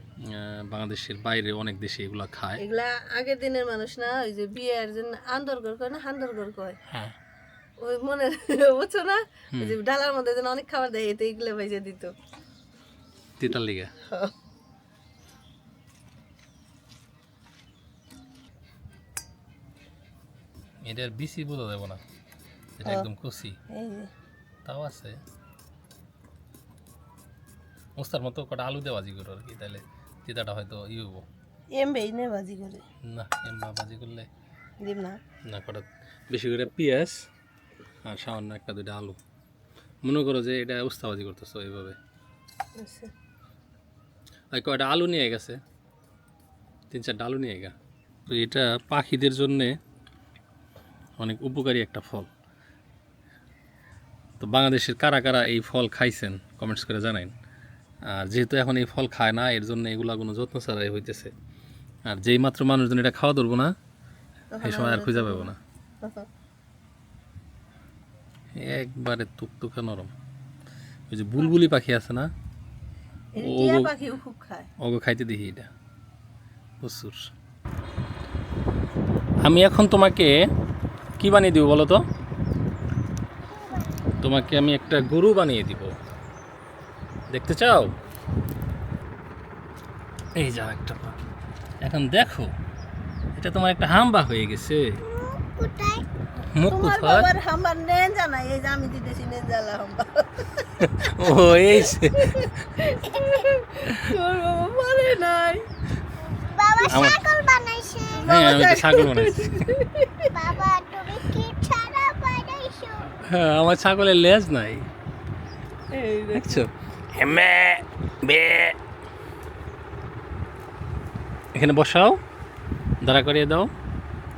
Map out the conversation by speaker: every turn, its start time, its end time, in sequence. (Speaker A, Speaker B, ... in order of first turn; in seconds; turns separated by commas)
Speaker A: 0.2-2.6, Speaker B: 2.6-6.8, Speaker A: 6.9-7.1, Speaker B: 7.8-12.1, Speaker A: 13.4-13.9, Speaker B: 14.1-14.3, Speaker A: 20.8-22.0, Speaker A: 22.8-23.6, Speaker B: 23.7-24.1, Speaker A: 24.6-25.2, Speaker A: 28.0-31.2, Speaker B: 31.8-32.8, Speaker A: 33.1-34.3, Speaker B: 34.8-35.2, Speaker A: 35.5-37.2, Speaker A: 38.0-39.2, Speaker A: 40.0-42.0, Speaker B: 42.8-43.1, Speaker A: 44.5-45.6, Speaker A: 46.9-47.7, Speaker A: 48.3-49.8, Speaker A: 51.2-52.3, Speaker A: 54.4-57.3, Speaker A: 58.1-61.3, Speaker A: 62.1-63.7, Speaker B: 64.5-65.5, Speaker A: 64.6-65.6, Speaker A: 68.6-70.1, Speaker A: 71.1-72.3, Speaker B: 73.3-74.7, Speaker A: 73.4-73.9, Speaker A: 74.8-75.7, Speaker A: 76.8-77.3, Speaker A: 79.4-80.3, Speaker A: 81.2-82.0, Speaker C: 83.6-84.2, Speaker A: 84.2-85.9, Speaker A: 87.3-87.9, Speaker A: 90.4-91.1, Speaker A: 91.8-92.5, Speaker A: 93.4-95.0, Speaker C: 95.0-96.0, Speaker A: 96.5-97.3, Speaker B: 96.7-101.3, Speaker A: 100.8-102.5, Speaker B: 101.8-105.7, Speaker C: 106.5-108.3, Speaker A: 106.9-107.2, Speaker B: 108.1-110.3, Speaker A: 108.2-109.7, Speaker C: 110.3-113.1, Speaker A: 113.2-114.9, Speaker B: 115.9-116.7, Speaker A: 116.3-118.8, Speaker A: 121.5-122.2, Speaker A: 123.0-123.7